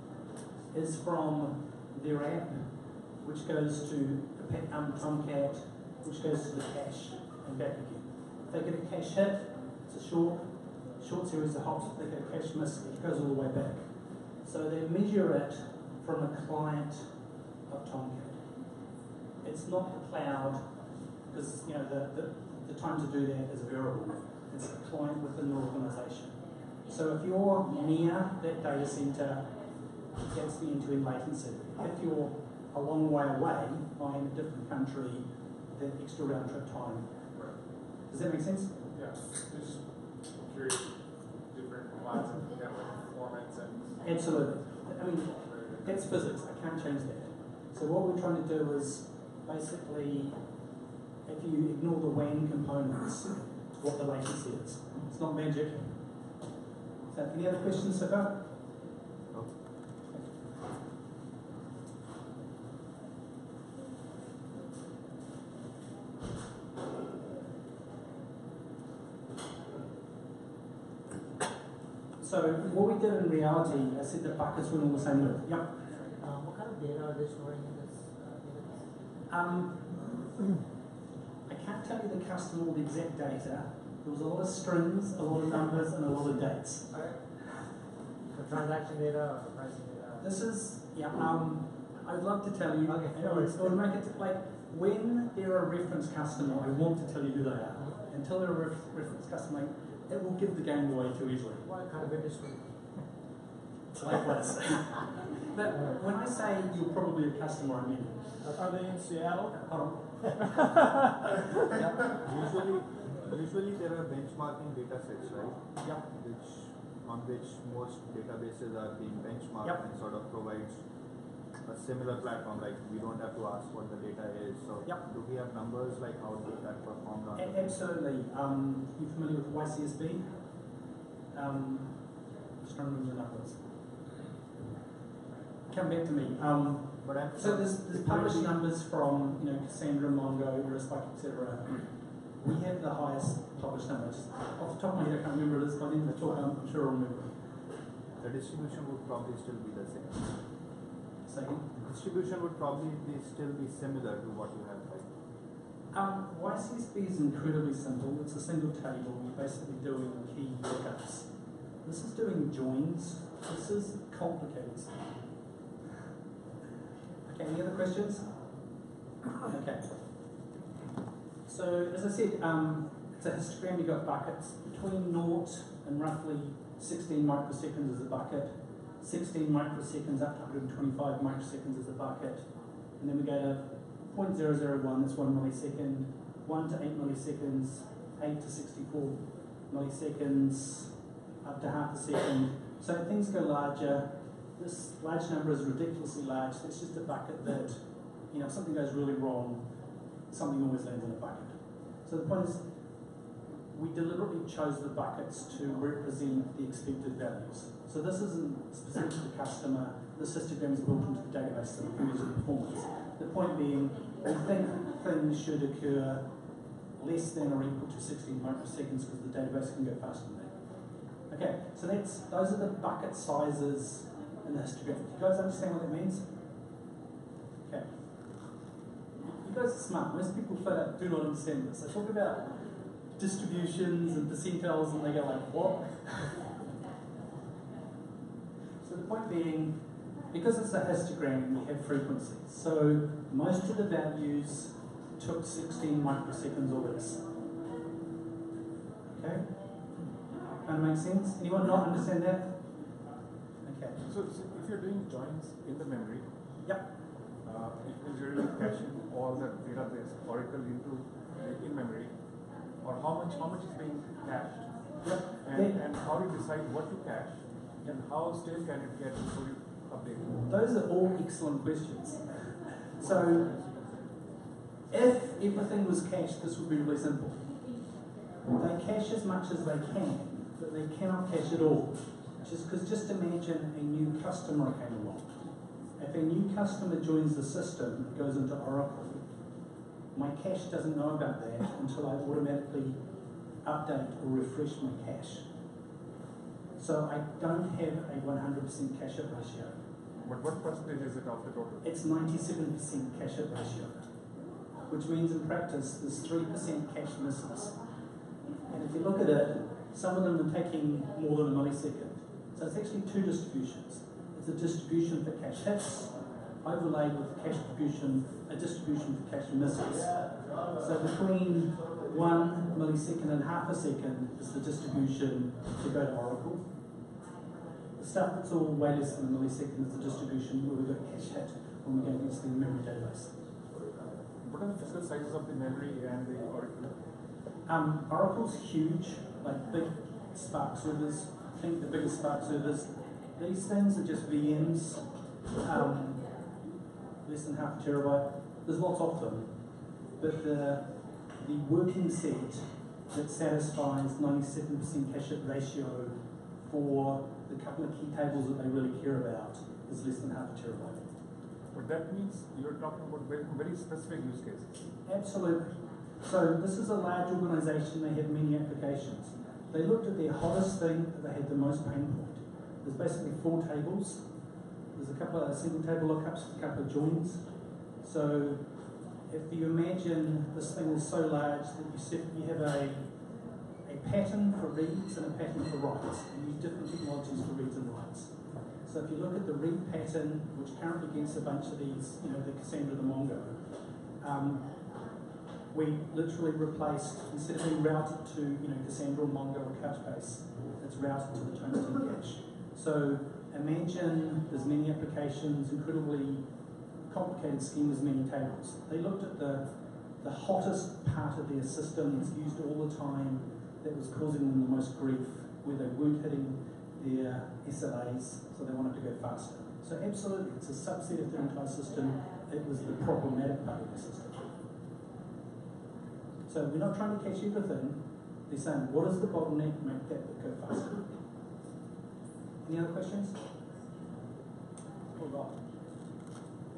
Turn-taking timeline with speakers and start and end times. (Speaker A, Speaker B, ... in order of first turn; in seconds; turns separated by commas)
Speaker A: 0.7-17.1, Speaker A: 17.7-18.4, Speaker A: 19.4-20.7, Speaker A: 21.3-29.6, Speaker A: 30.2-37.2, Speaker A: 38.1-38.8, Speaker B: 38.9-41.0, Speaker B: 41.5-44.0, Speaker A: 44.0-50.4, Speaker B: 45.2-46.1, Speaker A: 51.2-56.0, Speaker A: 57.1-58.5, Speaker A: 72.2-75.8, Speaker C: 75.9-79.0, Speaker A: 79.3-79.9, Speaker A: 81.5-86.9, Speaker C: 86.9-87.5, Speaker C: 88.3-90.3, Speaker A: 90.2-101.6, Speaker C: 92.9-93.8, Speaker C: 101.6-102.7, Speaker A: 104.0-108.6, Speaker C: 108.5-109.5, Speaker A: 109.6-110.6, Speaker D: 111.7-120.8, Speaker D: 121.7-127.7, Speaker A: 127.4-130.3, Speaker A: 131.3-132.0, Speaker A: 132.6-133.6, Speaker A: 135.7-147.4, Speaker D: 137.0-138.6, Speaker D: 148.2-150.3, Speaker A: 151.3-151.7, Speaker D: 151.8-155.1, Speaker A: 155.9-161.3, Speaker A: 161.8-164.9, Speaker A: 167.3-168.3, Speaker A: 169.4-169.9, Speaker A: 171.5-199.7, Speaker A: 200.3-202.7, Speaker A: 203.7-216.3, Speaker A: 217.0-220.6, Speaker A: 221.3-226.3, Speaker A: 227.7-227.9, Speaker A: 229.4-236.5, Speaker A: 238.8-247.2, Speaker A: 249.1-249.6, Speaker A: 250.6-252.6, Speaker A: 253.6-254.0, Speaker E: 254.0-256.3, Speaker A: 256.6-256.9, Speaker E: 257.4-262.1, Speaker E: 262.8-270.4, Speaker A: 265.0-265.8, Speaker A: 270.5-273.6, Speaker A: 274.9-277.5, Speaker A: 278.5-285.3, Speaker A: 286.0-289.3, Speaker A: 290.1-293.1, Speaker A: 293.6-295.5, Speaker A: 296.8-299.8, Speaker E: 300.2-301.9, Speaker A: 301.8-304.1, Speaker A: 304.9-307.8, Speaker A: 308.7-326.7, Speaker A: 328.0-333.3, Speaker E: 334.4-337.0, Speaker A: 337.7-346.3, Speaker A: 347.2-349.5, Speaker A: 350.2-361.1, Speaker E: 361.7-364.8, Speaker A: 365.1-374.2, Speaker A: 374.9-377.5, Speaker A: 378.0-378.7, Speaker A: 379.3-383.1, Speaker A: 383.9-394.8, Speaker A: 395.7-406.5, Speaker A: 407.1-424.5, Speaker A: 426.5-431.1, Speaker A: 432.6-433.4, Speaker A: 435.2-435.6